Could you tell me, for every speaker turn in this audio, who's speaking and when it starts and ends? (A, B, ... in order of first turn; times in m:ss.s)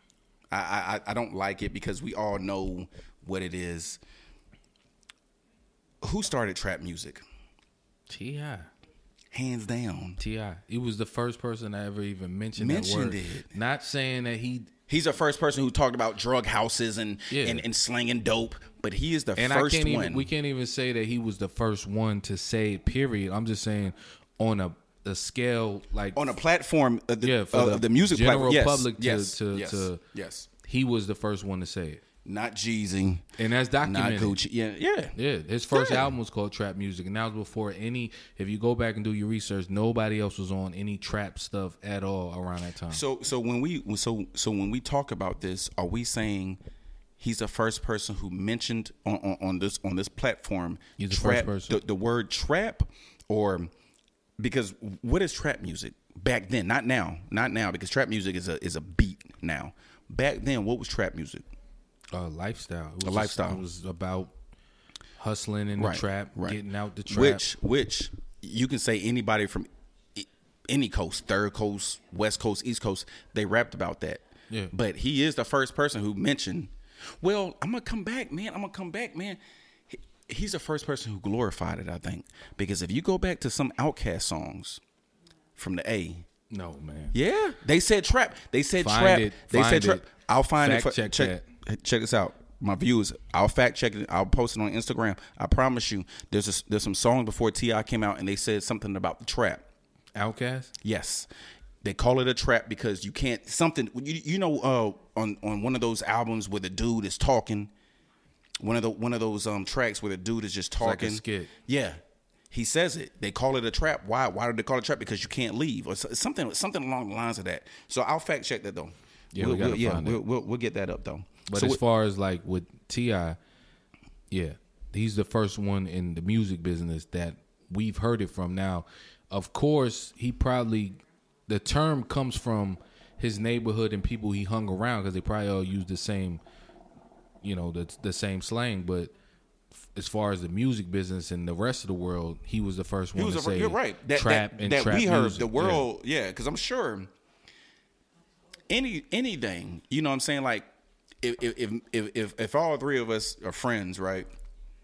0:00.5-0:04.0 A
0:06.0-0:07.2 A
0:08.1-0:08.7 B
0:09.3-0:10.2 A
0:10.2-0:14.7 B
0:12.6-0:13.5 A
0:14.9-0:20.3 A
0:17.3-0:17.6 B
0:19.4-0:26.2 B
0:26.2-0:30.5 A
0:27.2-0:30.0 B
0:30.6-0:32.0 B
0:32.2-0:35.2 A
0:33.4-0:34.4 B
0:35.2-0:43.0 B
0:35.7-0:36.1 A
0:42.9-0:46.6 A
0:47.2-0:53.7 A
0:51.0-0:51.8 B
0:54.4-1:01.5 A
1:02.1-1:04.3 B
1:03.0-1:03.6 A
1:05.2-1:07.4 B
1:05.8-1:24.8 A
1:25.6-1:26.3 A
1:26.5-1:27.1 B
1:27.1-1:39.6 A
1:28.8-1:31.4 B
1:40.2-1:40.7 B
1:40.8-1:41.3 A
1:41.8-1:47.7 A
1:48.6-1:52.0 A
1:50.8-1:51.5 B
1:52.5-2:01.8 A
1:59.4-2:00.2 B
2:01.5-2:03.4 B
2:04.3-2:16.4 B
2:17.4-2:19.1 B
2:20.0-2:25.9 B
2:23.2-2:27.1 A
2:28.7-2:30.7 A
2:31.2-2:34.3 A